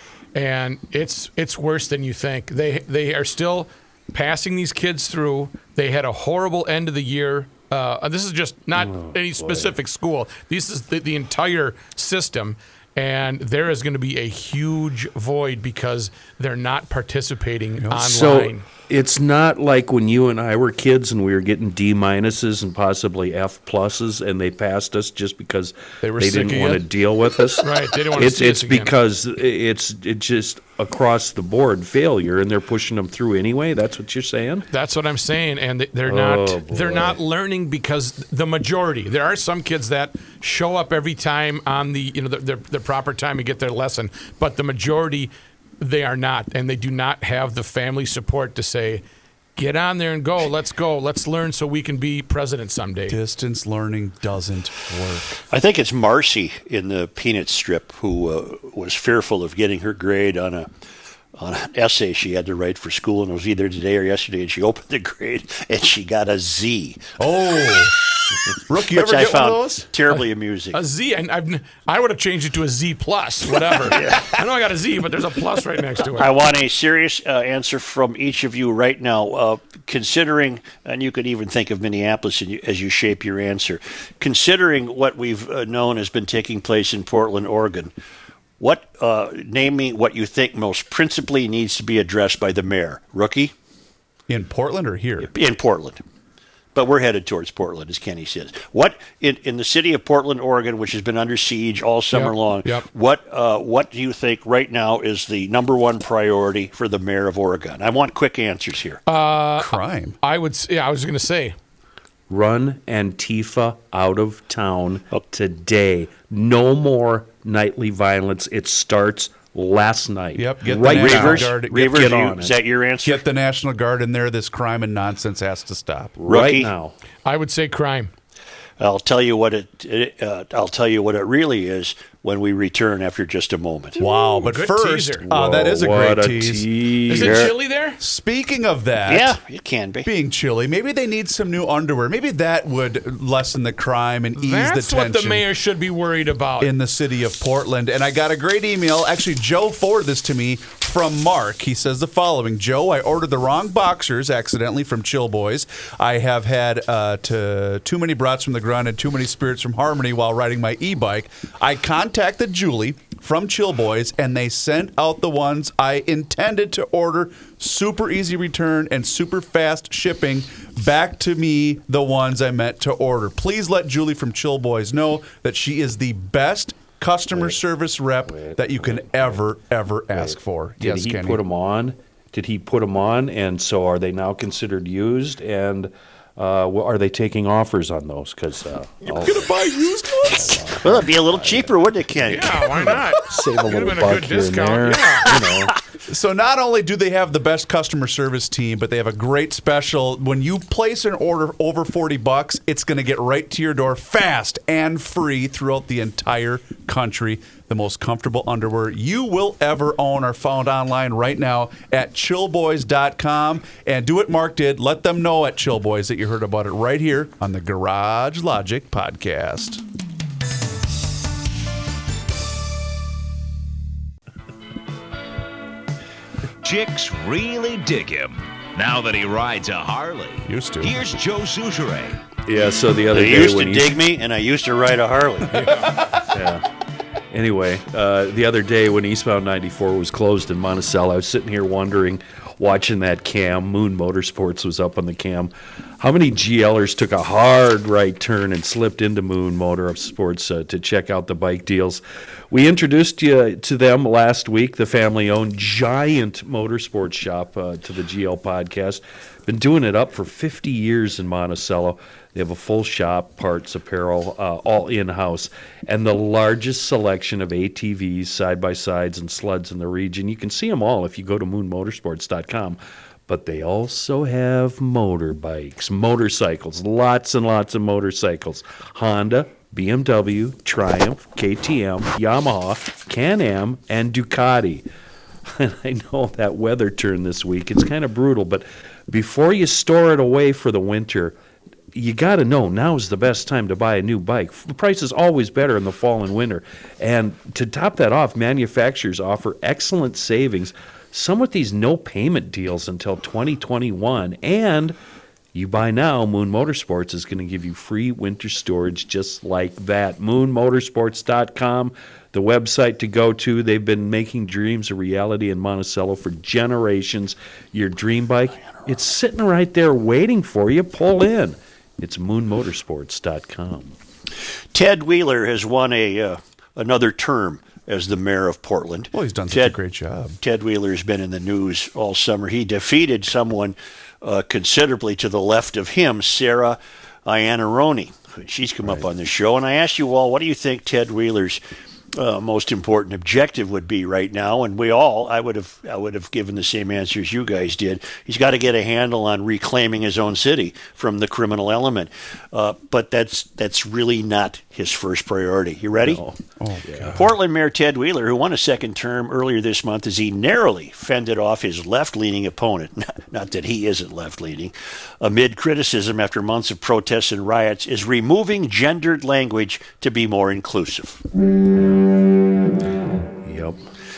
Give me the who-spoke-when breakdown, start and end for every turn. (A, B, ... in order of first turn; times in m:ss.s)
0:00.3-0:18.6 A
0:08.8-0:09.8 B
0:17.8-0:18.1 C
0:18.0-0:34.6 B
0:26.0-0:26.8 C
0:27.6-0:28.9 A
0:34.7-0:49.0 A
0:36.0-0:37.2 B
0:49.6-0:53.2 A
0:53.1-0:55.4 C
0:55.5-1:00.7 D
1:01.4-1:07.1 D
1:07.2-1:07.9 C
1:08.7-1:09.9 C
1:08.9-1:10.8 D
1:10.7-1:16.3 A
1:13.8-1:14.3 D
1:16.2-1:27.9 D
1:28.6-1:33.5 D
1:34.3-1:35.3 C
1:35.3-1:36.0 D
1:36.7-1:49.0 D
1:42.1-1:42.8 A
1:49.1-1:51.5 A
1:49.6-1:50.2 C
1:52.3-2:02.6 B
2:00.3-2:02.1 C
2:00.8-2:03.2 D
2:03.0-2:06.2 C
2:06.2-2:07.0 B
2:06.3-2:06.7 D
2:07.2-2:08.1 A
2:08.8-2:14.0 D
2:14.0-2:16.7 C
2:14.0-2:15.2 A
2:15.2-2:17.5 B
2:17.1-2:18.0 A
2:18.0-2:19.4 C
2:19.1-2:20.1 D
2:20.0-2:25.4 C
2:24.4-2:26.7 A
2:26.6-3:01.4 C
2:57.3-2:57.6 B
2:58.3-2:59.4 B
3:00.1-3:09.5 B
3:09.0-3:11.0 C
3:10.4-3:11.7 B
3:10.8-3:12.9 D
3:12.3-3:15.3 A
3:12.9-3:15.7 B
3:16.1-3:39.8 C
3:46.6-3:52.2 E
3:50.4-3:51.0 C
3:52.4-3:54.0 B
3:53.1-3:55.6 D
3:55.6-3:55.9 C
3:56.3-3:56.6 B
3:57.3-4:44.8 B
4:45.5-4:51.4 B
4:51.9-5:05.0 B
5:05.5-5:24.0 B
5:24.7-5:29.7 D
5:29.1-5:30.4 C
5:30.4-5:41.6 D
5:42.1-5:56.2 D
5:56.0-5:57.2 B
5:56.6-5:57.3 C
5:57.1-6:11.2 D
6:11.8-6:12.1 B
6:13.4-6:13.8 B